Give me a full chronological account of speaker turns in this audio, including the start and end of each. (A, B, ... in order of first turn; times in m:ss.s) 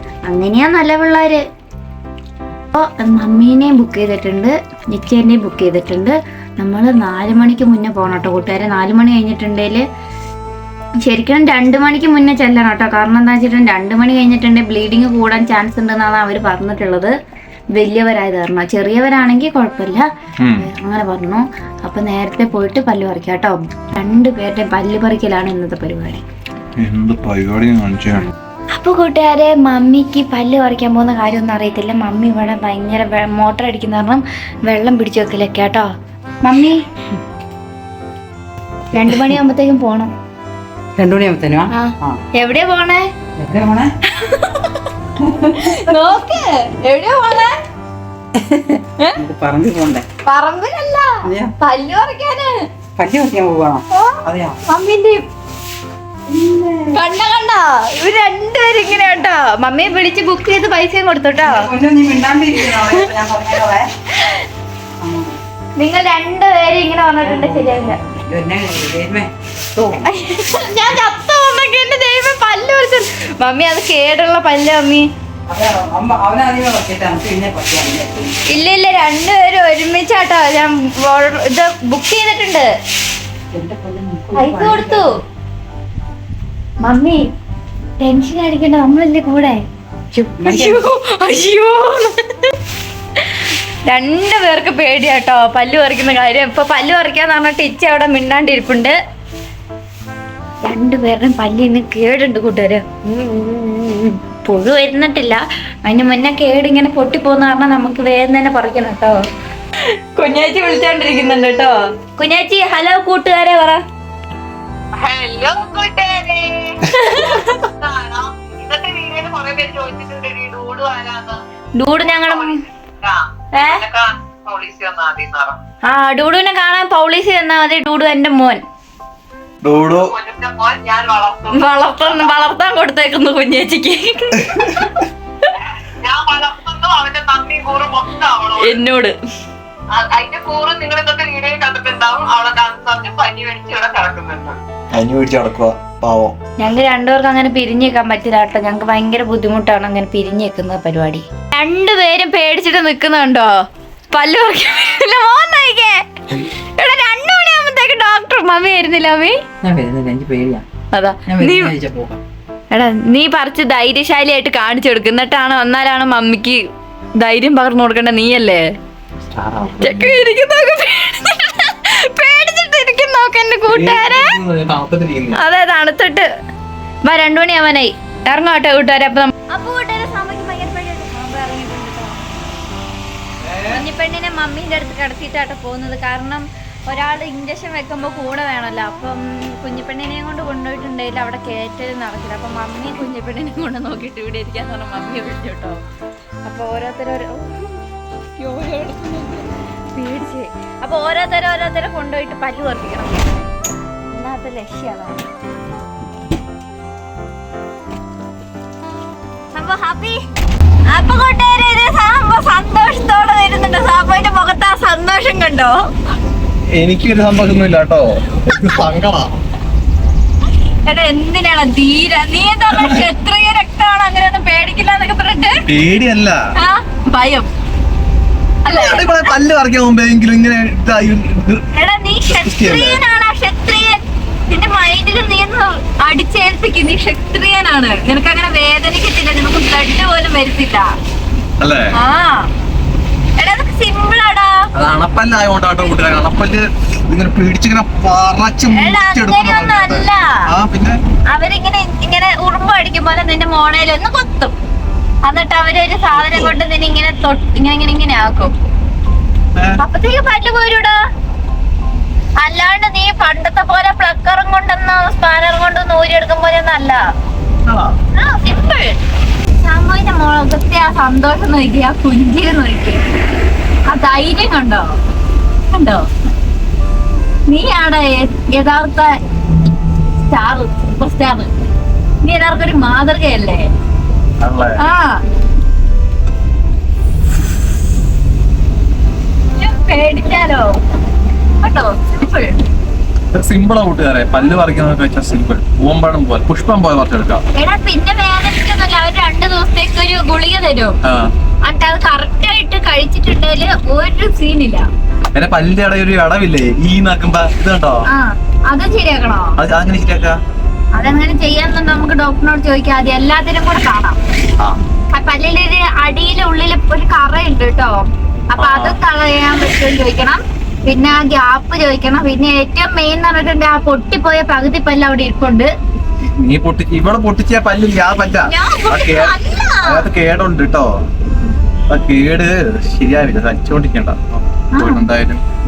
0:00.3-0:01.4 A
0:02.7-0:09.8 A
0:11.1-0:17.1 A
0:17.8-0:26.2 A
0:20.4-0:20.7 B
0:26.8-0:28.3 B
0:28.7-0:35.9 A
0:36.4-0:36.8 A
0:38.9-0:40.1 A
0:41.0-0:42.2 C
0:41.7-0:43.1 A
0:43.4-0:43.9 C
0:44.1-0:47.5 A
0:45.2-0:45.8 C
0:48.4-0:50.1 C
0:50.2-0:52.6 A
0:51.2-0:51.5 C
0:53.0-0:54.6 C
0:53.9-0:55.2 A
0:56.3-0:57.0 C
0:56.9-1:01.7 A
1:01.4-1:03.9 C
1:02.6-1:03.1 A
1:05.0-1:05.4 C
1:05.8-1:08.0 A
1:07.2-1:10.1 C
1:10.0-1:15.1 A
1:15.5-1:18.4 C
1:18.5-1:22.7 A
1:23.5-1:25.1 C
1:24.3-1:25.1 A
1:26.8-1:27.2 A
1:28.0-1:29.6 A
1:30.1-1:30.9 C
1:30.4-1:32.6 A
1:33.9-1:39.0 A
1:40.6-1:49.2 A
1:49.8-1:53.8 A
1:55.0-1:56.5 D
1:56.8-1:57.6 A
1:57.1-2:01.4 D
2:01.8-2:02.6 A
2:02.3-2:05.6 D
2:03.5-2:03.8 A
2:05.9-2:08.6 A
2:09.6-2:10.1 B
2:09.8-2:11.6 D
2:11.5-2:15.1 A
2:16.1-2:18.6 D
2:18.4-2:19.2 A
2:19.9-2:24.6 D
2:24.9-2:26.3 B
2:26.6-2:33.6 A
2:34.1-2:39.4 A
2:39.6-2:40.6 C
2:40.9-2:41.7 A
2:41.3-2:42.2 C
2:42.7-2:46.6 A
2:47.2-2:48.7 A
2:49.3-2:50.3 B
2:49.8-2:54.4 A
2:53.7-2:55.4 B
2:55.3-2:56.3 A
2:57.1-3:02.4 A
3:03.4-3:03.8 B
3:03.7-3:15.8 A
3:16.5-3:17.8 A
3:18.4-3:23.5 A
3:24.1-3:25.3 A
3:29.5-3:30.2 A
3:30.9-3:35.9 A
3:36.7-3:39.3 B
3:38.5-3:38.9 A
3:40.8-3:45.7 A
3:42.7-3:43.0 B
3:45.7-3:46.4 B
3:46.6-3:47.5 A
3:48.6-3:49.4 A
3:48.7-3:51.6 B
3:51.7-4:00.9 A
3:52.3-3:53.0 B
4:01.6-4:01.9 B
4:02.0-4:02.5 A
4:03.4-4:04.6 A
4:04.7-4:11.0 B
4:08.7-4:10.4 A
4:11.3-4:14.5 A
4:15.2-4:18.5 A
4:16.1-4:16.6 B
4:19.8-4:21.0 A
4:22.4-4:27.0 A
4:27.7-4:28.0 B
4:28.1-4:29.0 A
4:29.6-4:33.0 A
4:33.9-4:34.9 A
4:35.7-4:36.1 A
4:37.5-4:39.2 A
4:40.2-4:41.6 A
4:42.2-4:43.7 A
4:44.4-4:44.8 B
4:44.8-4:45.2 A
4:49.6-4:50.8 A
4:51.6-4:52.6 A
4:53.3-4:57.4 B
4:57.5-5:01.0 A
5:01.0-5:01.3 B
5:01.6-5:04.9 A
5:05.3-5:08.0 B
5:08.1-5:09.5 A
5:09.6-5:10.4 B
5:10.9-5:14.2 A
5:15.1-5:25.7 A
5:18.6-5:19.0 B
5:26.2-5:30.9 B
5:28.4-5:30.1 A
5:31.9-5:35.4 B
5:34.7-5:35.1 A